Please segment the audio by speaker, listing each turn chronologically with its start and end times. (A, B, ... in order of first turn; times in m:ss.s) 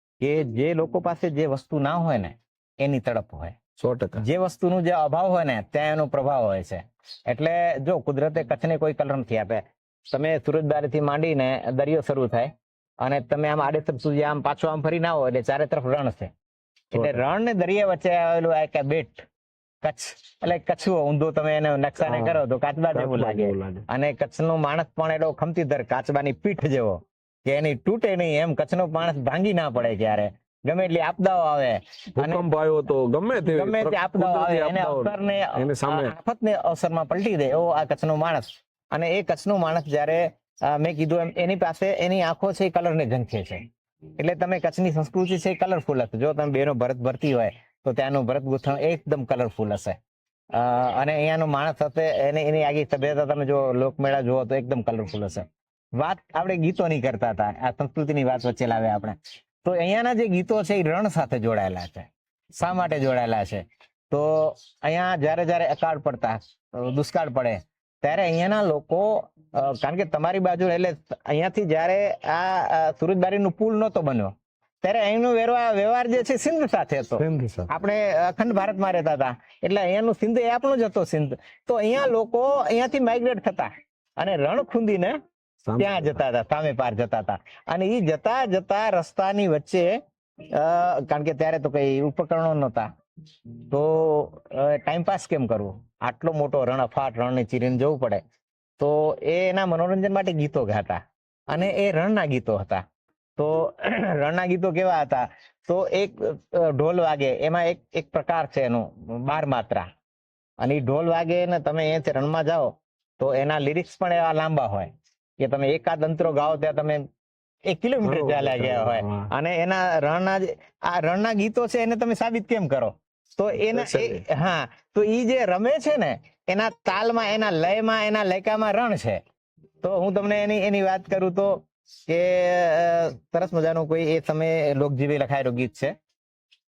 0:00.2-0:03.6 A
0:03.8-0:04.2 B
0:04.2-0:12.5 A
0:13.0-0:16.3 A
0:16.9-0:19.2 A
0:19.8-0:32.5 A
0:22.0-0:22.4 B
0:22.9-0:23.8 B
0:32.2-0:36.1 B
0:33.4-0:43.6 A
0:44.2-0:50.0 A
0:50.5-0:55.4 A
0:56.0-1:02.1 A
1:02.6-1:14.3 A
1:14.8-1:25.2 A
1:17.2-1:17.7 B
1:25.6-1:26.2 B
1:25.8-1:29.9 A
1:30.5-1:32.9 A
1:33.7-1:38.2 A
1:38.8-1:41.0 A
1:41.5-1:42.8 A
1:43.4-1:49.8 A
1:50.6-1:54.9 A
1:55.4-1:57.0 A
1:57.7-2:09.2 A
1:58.0-1:59.3 B
2:03.7-2:04.2 B
2:09.8-2:11.5 A
2:12.1-2:15.9 A